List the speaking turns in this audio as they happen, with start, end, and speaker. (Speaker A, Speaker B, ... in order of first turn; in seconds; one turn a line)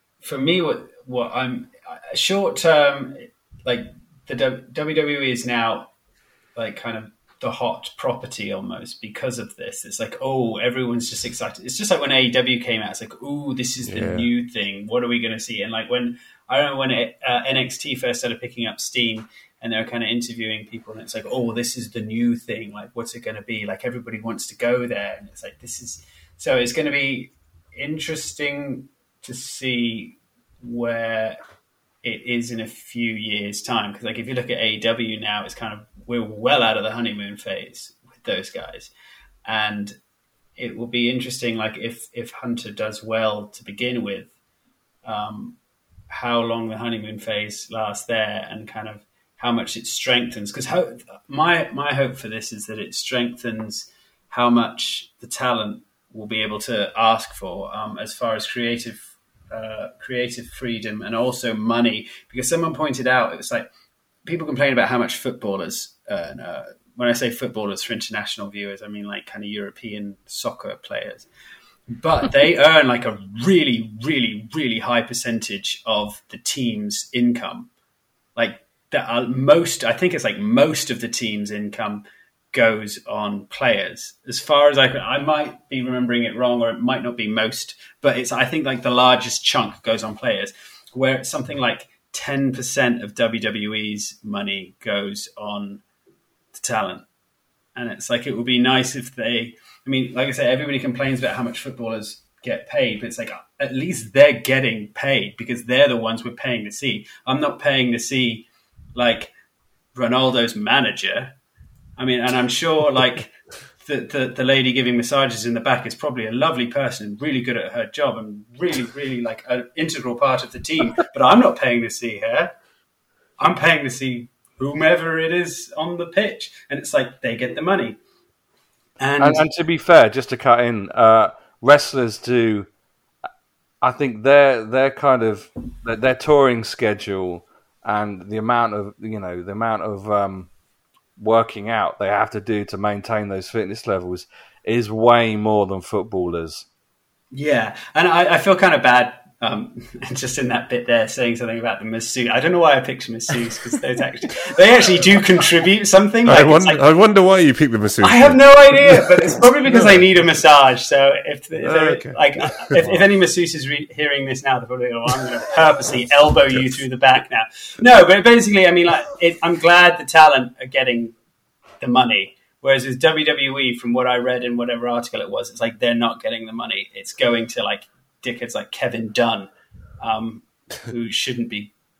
Speaker A: 0.2-5.9
Speaker A: 6.5-31.4
Speaker B: 13.8-14.3
Speaker A: 32.0-38.9
Speaker A: 39.5-39.9
Speaker A: 40.6-44.3
Speaker A: 45.0-45.6
Speaker A: 46.1-63.6
Speaker A: 64.2-71.3
Speaker A: 71.9-77.7
Speaker A: 78.3-95.8
Speaker A: 96.5-97.0
Speaker A: 97.7-109.3
Speaker A: 109.9-111.4
Speaker A: 112.0-122.5
Speaker A: 123.4-128.0
Speaker A: 129.0-129.4
Speaker C: 129.2-132.7
Speaker C: 133.8-140.5
Speaker C: 141.2-146.7
Speaker A: 147.3-156.8
Speaker B: 156.2-160.1
Speaker A: 158.0-171.1
Speaker B: 161.6-163.0
Speaker B: 166.5-166.8
Speaker A: 171.8-181.7